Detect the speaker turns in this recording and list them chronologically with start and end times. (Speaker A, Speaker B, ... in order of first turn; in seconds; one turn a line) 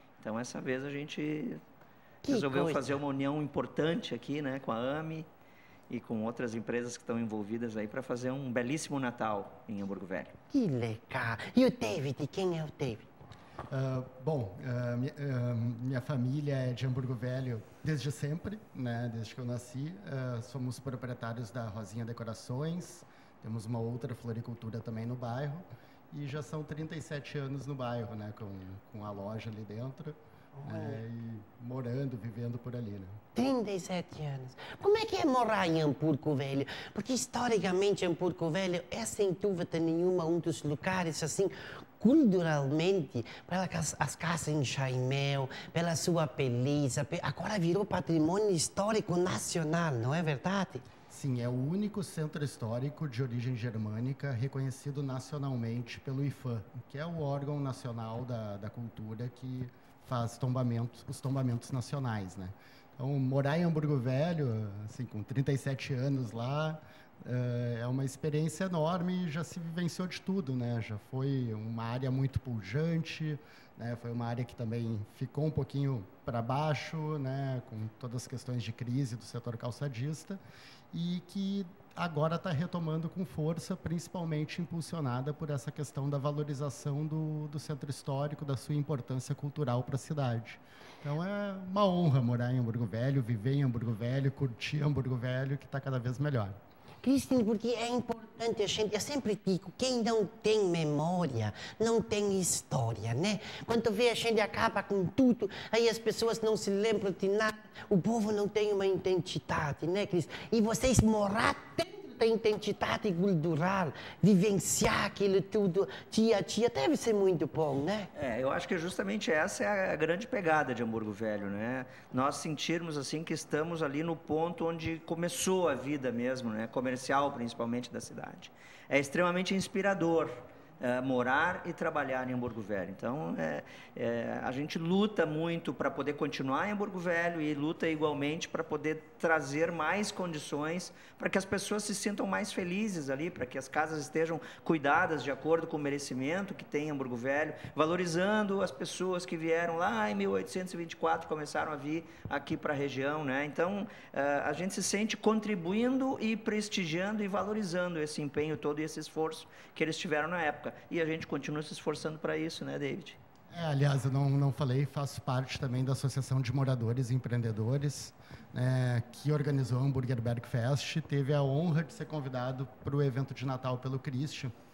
Speaker A: 0.2-1.6
Speaker B: 2.2-3.0
Speaker A: 2.3-5.3
Speaker A: 5.9-10.3
Speaker B: 10.5-13.1
Speaker C: 13.7-33.2
Speaker B: 30.5-31.0
Speaker B: 33.3-50.9
Speaker C: 51.1-80.4
Speaker C: 80.9-96.6
Speaker B: 97.0-118.1
Speaker A: 118.1-163.2
Speaker C: 163.5-174.5